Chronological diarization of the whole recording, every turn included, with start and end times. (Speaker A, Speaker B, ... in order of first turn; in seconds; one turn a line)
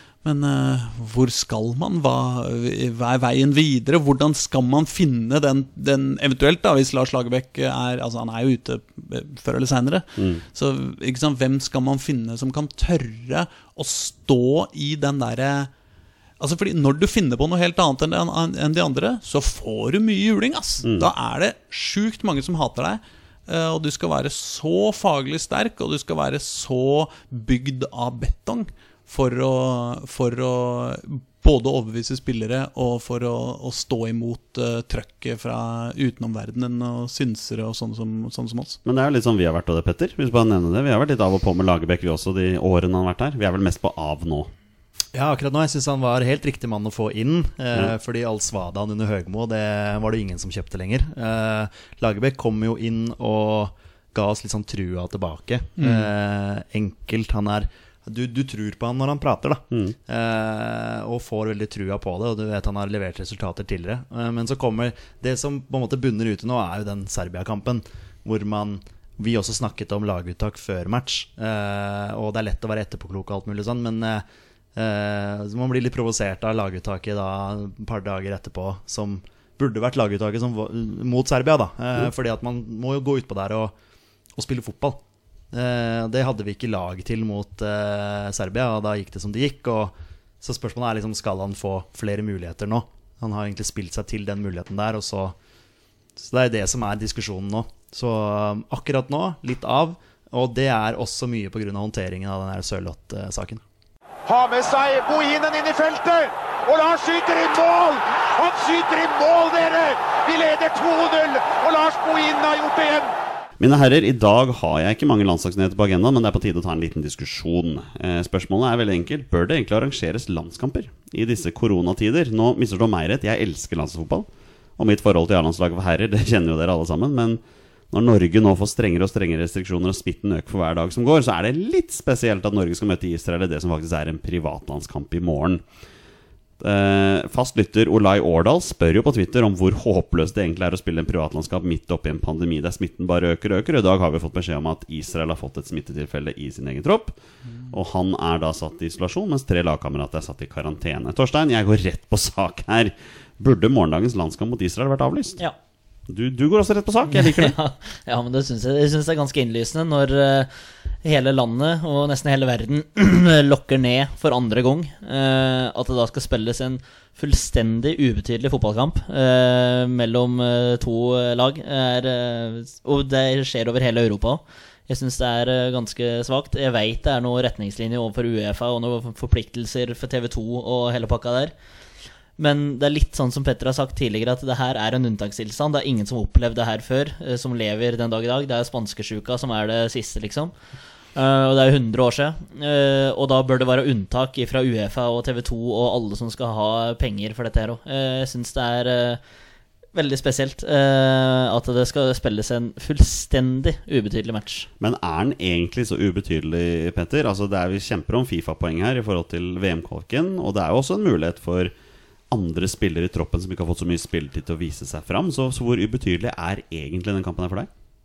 Speaker A: 0.2-15.7
Speaker B: 10.2-10.4
Speaker A: 16.4-38.8
Speaker B: 20.8-21.1
Speaker B: 38.8-44.5
Speaker C: 45.1-83.7
Speaker A: 55.8-56.1
Speaker B: 59.7-60.0
Speaker C: 84.3-85.0
Speaker C: 85.5-95.3
Speaker C: 96.2-103.6
Speaker D: 104.2-113.1
Speaker B: 113.6-135.6
Speaker B: 136.6-147.2
Speaker B: 147.7-155.4
Speaker B: 156.1-157.6
Speaker E: 157.1-160.5
Speaker E: 161.0-181.5
Speaker E: 182.4-190.6
Speaker E: 191.1-199.2
Speaker E: 199.9-204.7
Speaker B: 204.8-211.7
Speaker B: 212.3-217.7